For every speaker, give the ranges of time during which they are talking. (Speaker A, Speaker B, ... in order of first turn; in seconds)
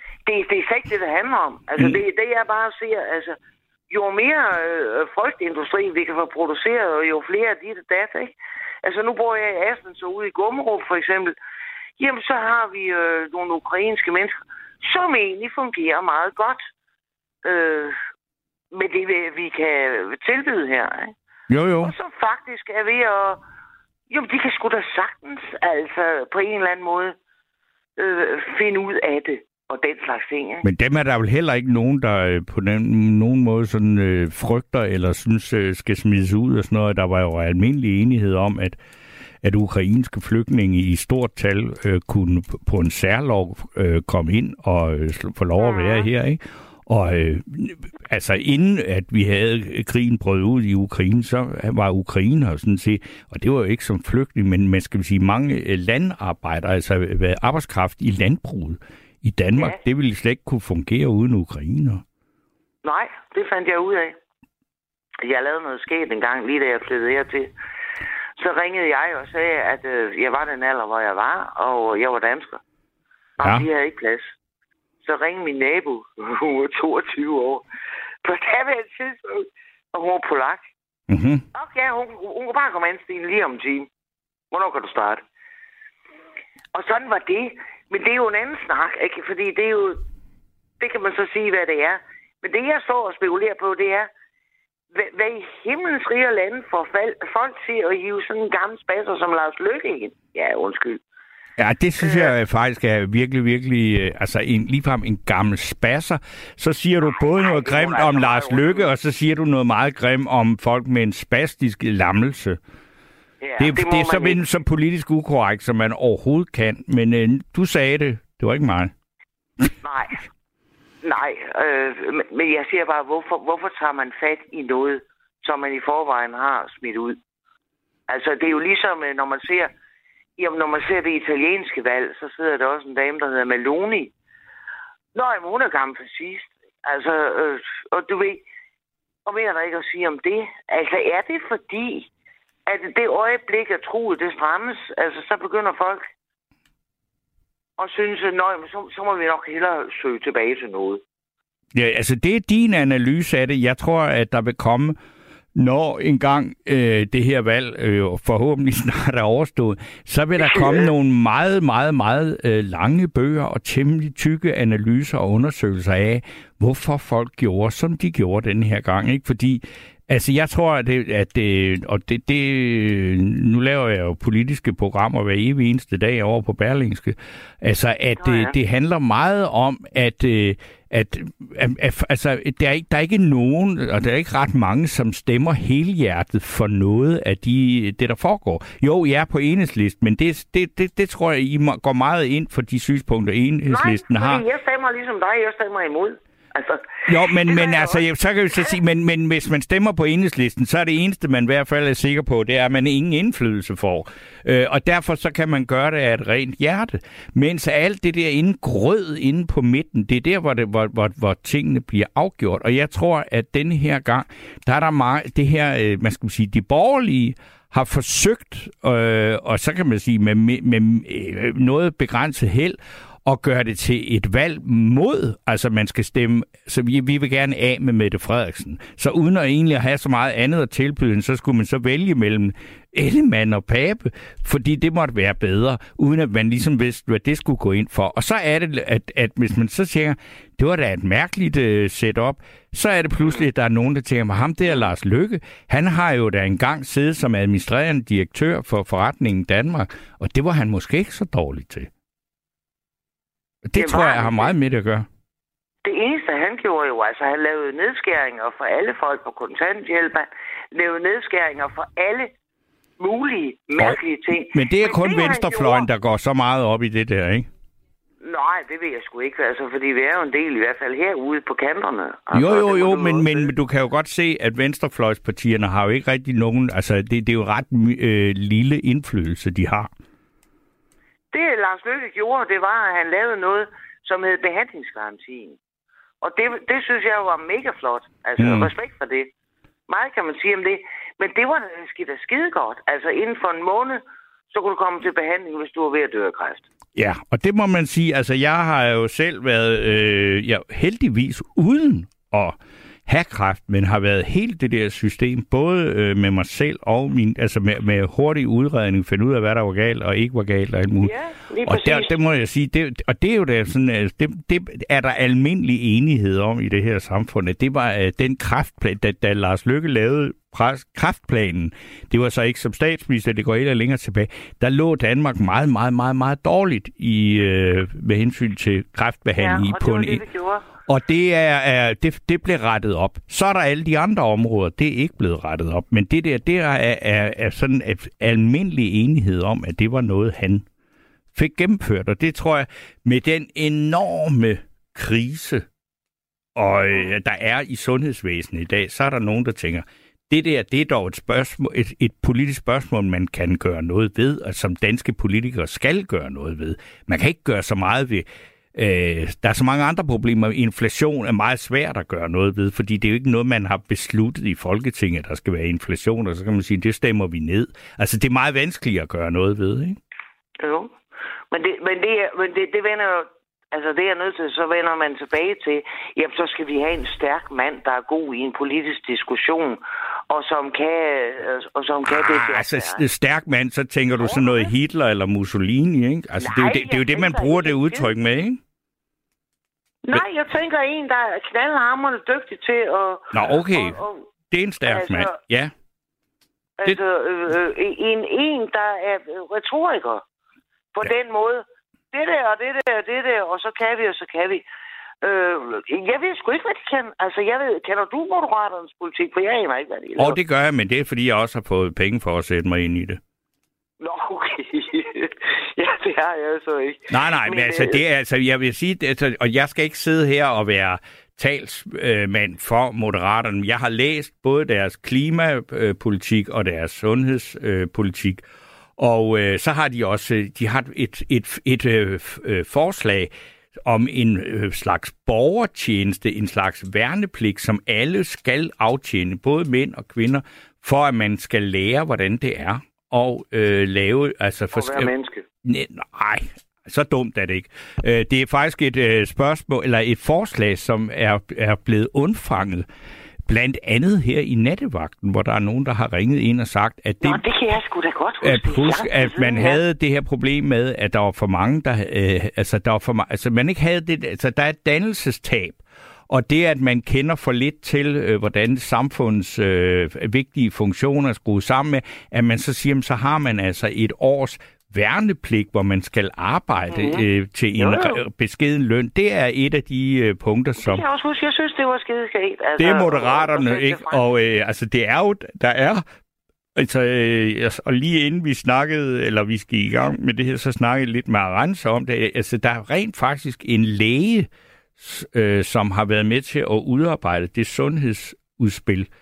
Speaker A: 0.3-3.4, 3.9-11.3, 12.0-16.6, 17.4-17.9, 18.7-21.1, 21.8-23.4, 24.1-27.1, 28.0-30.7, 45.6-46.1, 62.8-64.2, 65.2-67.5, 68.4-72.6, 73.4-74.3, 75.0-77.7, 78.2-80.7, 81.5-83.9, 84.5-85.2, 86.7-90.0, 90.8-94.1, 94.9-101.0, 102.0-102.3, 107.1-108.9, 113.4-114.4, 119.8-120.2, 121.0-127.2, 128.1-129.7, 130.4-134.1, 135.1-138.4, 139.3-142.1, 142.7-146.1, 147.8-151.0, 160.4-160.9, 178.2-178.5, 193.7-198.0, 253.8-254.5, 255.8-262.3, 263.0-265.9, 268.2-273.5, 281.3-285.6, 286.2-289.3, 289.9-296.7, 311.0-312.1, 329.4-330.7, 370.6-370.9, 371.5-383.0, 384.2-384.7, 386.4-388.1, 390.1-394.3, 394.9-395.4, 396.8-400.2, 400.9-404.6, 405.2-410.4, 414.0-418.0, 444.7-445.4, 457.2-459.8, 476.9-477.3, 477.8-478.2, 480.8-484.2
Speaker B: 21.5-21.9, 30.6-38.8, 39.4-62.0, 73.4-73.7, 81.1-81.4, 101.6-112.6, 113.6-118.9, 151.7-155.0, 155.6-194.4, 197.1-251.9, 253.7-255.1, 264.5-267.5, 272.3-279.9, 288.4-288.7, 297.0-311.1, 311.6-330.2, 330.9-340.7, 341.3-345.7, 346.6-370.0, 382.1-388.6, 393.3-394.0, 394.5-395.7, 410.2-413.2, 417.1-428.4, 429.0-433.3, 433.9-445.1, 445.6-452.9, 453.5-457.4, 458.4-481.0, 482.8-486.0, 486.8-499.1